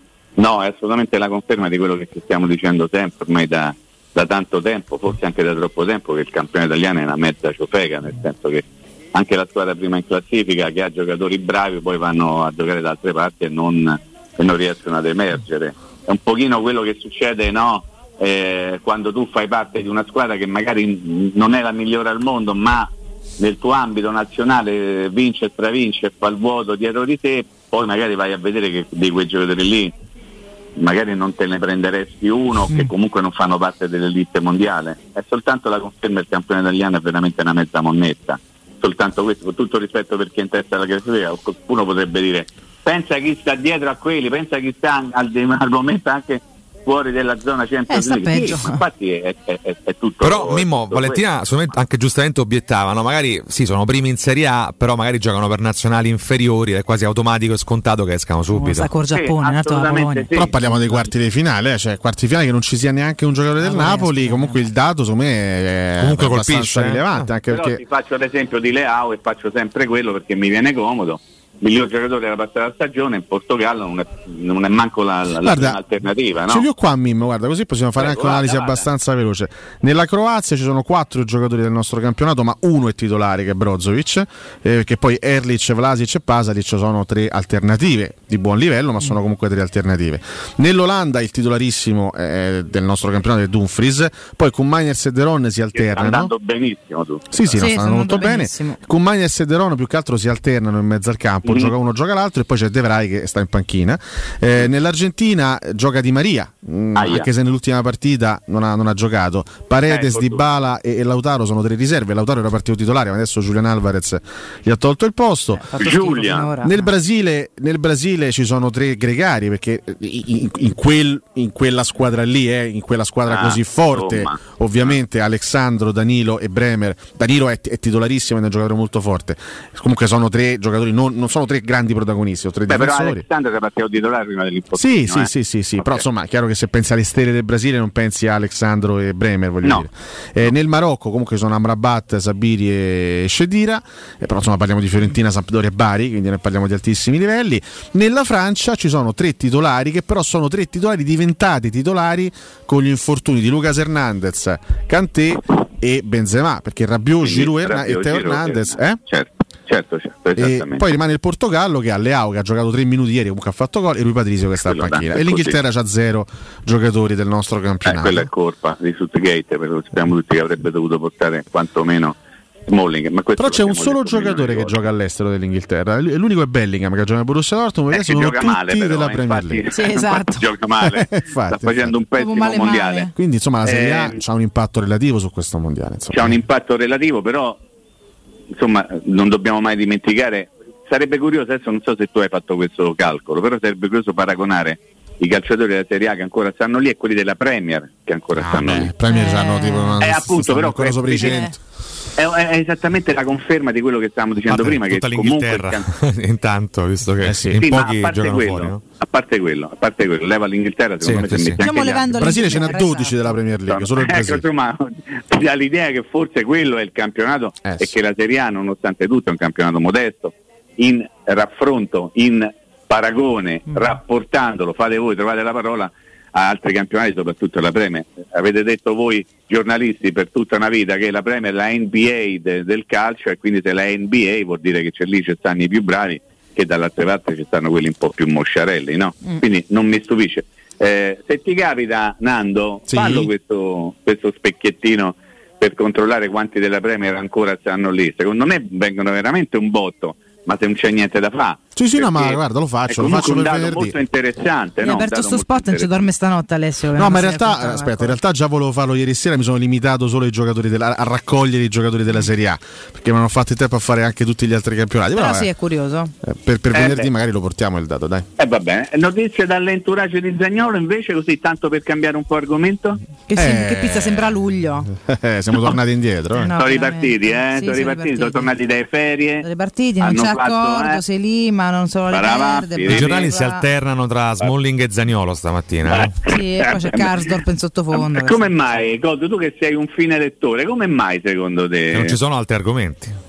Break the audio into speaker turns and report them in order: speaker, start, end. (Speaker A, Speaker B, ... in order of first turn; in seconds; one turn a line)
Speaker A: 0.4-29.9
Speaker A: 30.8-51.2
Speaker B: 47.9-48.8
Speaker C: 50.2-58.9
Speaker B: 58.5-60.3
Speaker A: 59.1-61.1
Speaker D: 60.3-67.8
Speaker B: 63.6-64.6
Speaker C: 66.0-67.3
Speaker A: 67.5-76.7
Speaker D: 75.4-75.8
Speaker D: 76.5-96.3
Speaker A: 78.0-78.8
Speaker A: 95.7-97.6
Speaker D: 97.3-115.8
Speaker B: 97.5-98.8
Speaker A: 101.4-101.7
Speaker A: 106.9-107.3
Speaker A: 109.9-110.5
Speaker B: 115.6-116.9
Speaker A: 115.8-116.5
Speaker D: 116.6-133.2
Speaker A: 123.3-125.0
Speaker A: 132.7-136.0
Speaker D: 134.8-159.0
Speaker A: 157.2-160.9
Speaker D: 160.4-168.3
Speaker A: 164.6-165.6
Speaker A: 167.8-172.2
Speaker A: 172.7-174.7
Speaker D: 173.4-179.6
Speaker A: 177.9-183.1
Speaker B: 179.7-180.4
Speaker D: 180.8-181.9
Speaker B: 182.2-183.1
Speaker D: 183.1-186.4
Speaker A: 183.6-184.2
Speaker A: 186.1-187.6
Speaker A: 188.6-198.9
Speaker D: 198.3-201.6
Speaker B: 199.1-200.0
Speaker A: 200.0-201.4
Speaker B: 201.2-201.5
Speaker A: 202.2-205.9
Speaker C: 204.5-208.8
Speaker D: 207.2-207.6
Speaker A: 207.6-212.3
Speaker C: 211.0-211.6
Speaker B: 211.6-213.3
Speaker D: 212.1-214.4
Speaker A: 213.7-255.9
Speaker D: 217.6-217.9
Speaker D: 242.9-243.3
Speaker D: 251.7-253.9
Speaker B: 254.8-258.1
Speaker D: 256.9-265.5
Speaker B: 265.1-266.1
Speaker D: 266.2-268.3
Speaker A: 266.7-267.1
Speaker A: 268.4-273.0
Speaker B: 273.3-274.9
Speaker D: 273.3-276.5
Speaker B: 276.4-278.5
Speaker A: 276.6-279.4
Speaker B: 279.4-283.6
Speaker A: 280.0-281.0
Speaker A: 282.1-283.3
Speaker C: 282.9-286.1
Speaker A: 285.9-287.3
Speaker B: 286.2-288.5
Speaker A: 287.9-292.2
Speaker C: 291.9-293.1